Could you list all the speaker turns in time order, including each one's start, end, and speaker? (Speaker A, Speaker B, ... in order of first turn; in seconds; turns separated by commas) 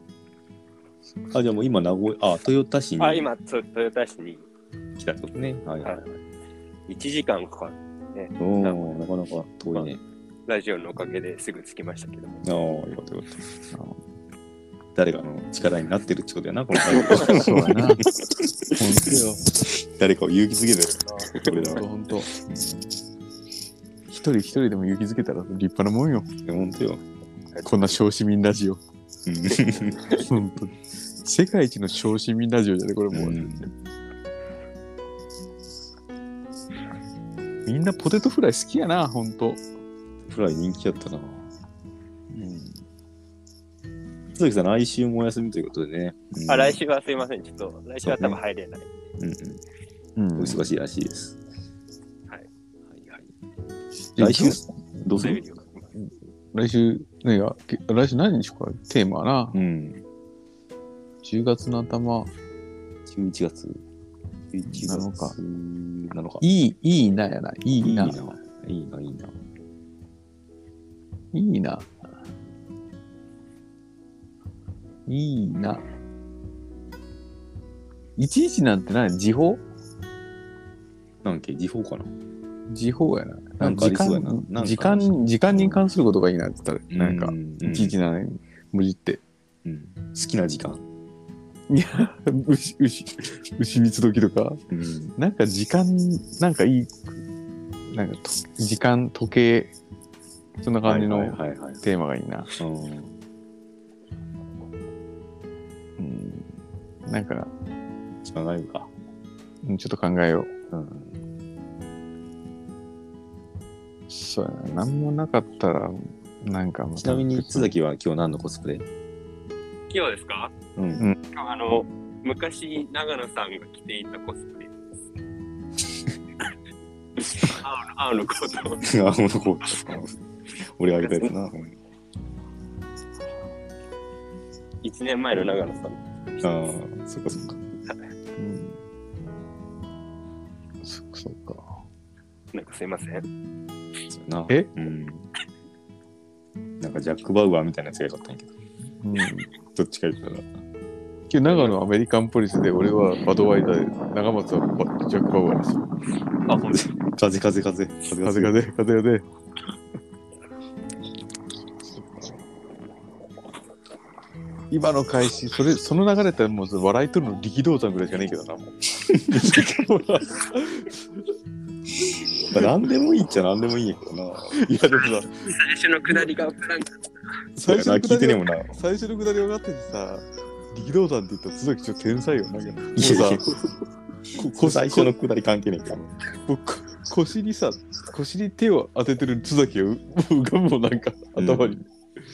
Speaker A: 1.3-3.3, Speaker B: 3.0-4.5, Speaker A: 5.0-6.0, Speaker B: 5.8-6.2, Speaker B: 6.9-9.0, Speaker A: 8.4-10.0, Speaker B: 9.7-12.7, Speaker A: 12.4-13.4, Speaker C: 13.7-14.0, Speaker A: 14.9-19.1, Speaker B: 17.0-17.4, Speaker C: 17.1-18.1, Speaker C: 18.7-19.4, Speaker A: 19.7-22.9, Speaker C: 21.4-22.3, Speaker C: 24.1-26.3, Speaker A: 26.4-27.1, Speaker C: 27.6-28.8, Speaker A: 29.3-30.1, Speaker C: 30.2-33.7, Speaker A: 33.1-33.7, Speaker C: 37.6-39.6, Speaker A: 40.2-41.5, Speaker C: 42.3-42.8, Speaker A: 44.3-46.8, Speaker B: 46.5-49.1, Speaker A: 48.0-48.4, Speaker A: 49.2-49.6, Speaker C: 50.1-50.7, Speaker A: 50.4-51.4, Speaker A: 53.0-53.2, Speaker C: 54.1-54.6, Speaker A: 54.2-55.4, Speaker B: 55.1-56.0, Speaker C: 56.0-59.5, Speaker A: 59.5-60.0, Speaker C: 61.2-62.3, Speaker A: 63.0-63.8, Speaker A: 64.5-66.5, Speaker C: 64.6-65.4, Speaker C: 66.4-68.2, Speaker A: 67.8-69.3, Speaker C: 71.3-72.1, Speaker C: 75.1-75.8, Speaker C: 78.2-79.6, Speaker A: 81.2-82.1, Speaker C: 82.7-89.2, Speaker A: 83.6-85.8, Speaker A: 86.9-88.0, Speaker A: 89.6-90.8, Speaker C: 91.7-94.6, Speaker A: 94.7-95.1, Speaker C: 95.2-97.2, Speaker C: 97.9-99.7, Speaker C: 100.6-102.5, Speaker A: 100.8-101.8, Speaker A: 102.6-103.2, Speaker C: 106.0-106.5, Speaker C: 107.0-107.5, Speaker A: 108.2-108.9, Speaker C: 109.6-110.5, Speaker A: 110.7-111.2, Speaker C: 114.1-117.7, Speaker A: 117.0-118.8, Speaker B: 119.9-120.5, Speaker A: 120.8-121.1, Speaker B: 121.3-124.7, Speaker B: 127.4-128.8, Speaker A: 128.8-131.8, Speaker B: 130.9-131.3, Speaker B: 134.8-136.8, Speaker A: 136.4-137.6, Speaker C: 138.4-138.8, Speaker C: 140.8-141.8, Speaker B: 142.5-143.2, Speaker A: 144.1-145.3, Speaker A: 146.8-148.5, Speaker C: 149.0-149.5, Speaker A: 149.7-150.6, Speaker C: 151.3-155.8, Speaker B: 151.4-151.8, Speaker B: 156.4-156.9, Speaker A: 156.6-158.6, Speaker C: 158.2-159.3, Speaker C: 164.7-168.8, Speaker A: 169.1-169.7, Speaker C: 169.3-171.3, Speaker A: 172.4-174.6, Speaker C: 174.6-175.6, Speaker B: 175.1-177.1, Speaker A: 177.6-178.8, Speaker C: 177.6-183.5, Speaker A: 182.9-183.6, Speaker A: 184.3-186.1, Speaker C: 184.4-185.1, Speaker C: 186.4-191.8, Speaker A: 191.3-191.8